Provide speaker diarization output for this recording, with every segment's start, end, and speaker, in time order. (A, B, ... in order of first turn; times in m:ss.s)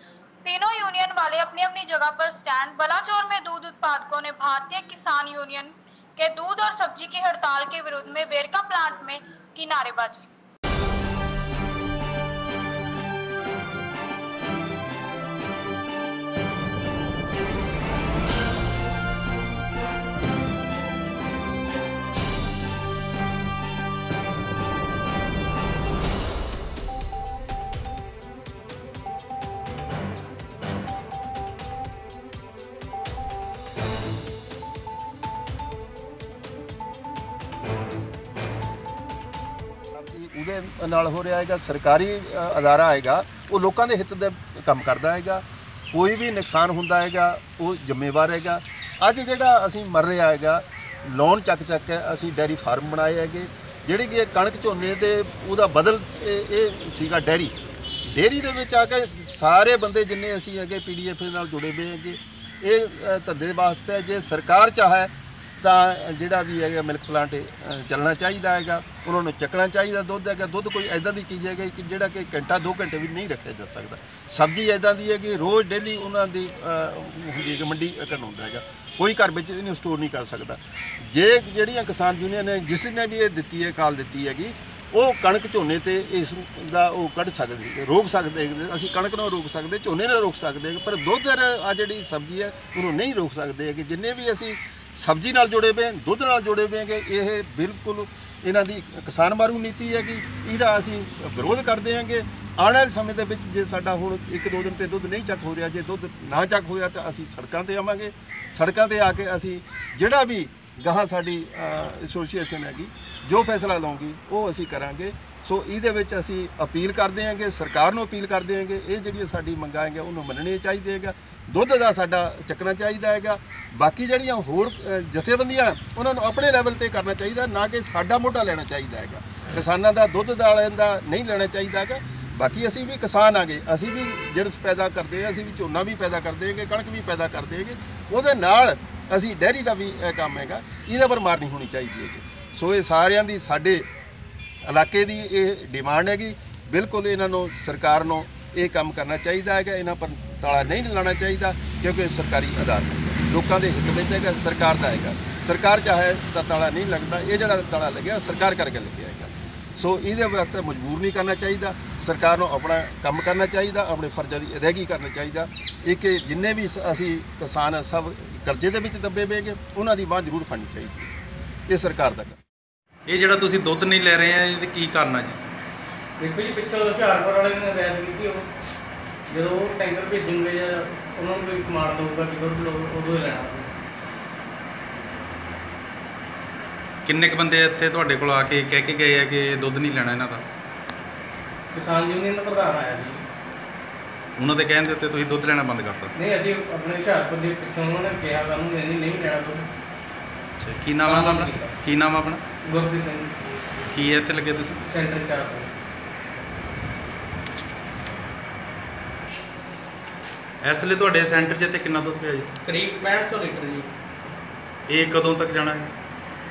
0:00.4-0:10.3 A
0:39.9-2:23.8 B
2:24.6-2:51.1 B
2:51.7-2:52.4 B
2:53.1-2:55.4 C
2:56.2-2:58.4 D
2:59.3-3:03.7 D
3:07.0-3:10.4 C
3:11.7-3:13.2 D
3:14.4-3:16.1 C
3:16.1-3:19.7 D
3:20.6-3:22.4 C
3:21.0-3:21.7 D
3:22.6-3:23.3 D
3:23.9-3:24.8 C
3:24.8-3:25.7 D
3:30.6-3:32.5 C
3:32.6-3:33.9 D
3:34.9-3:35.9 C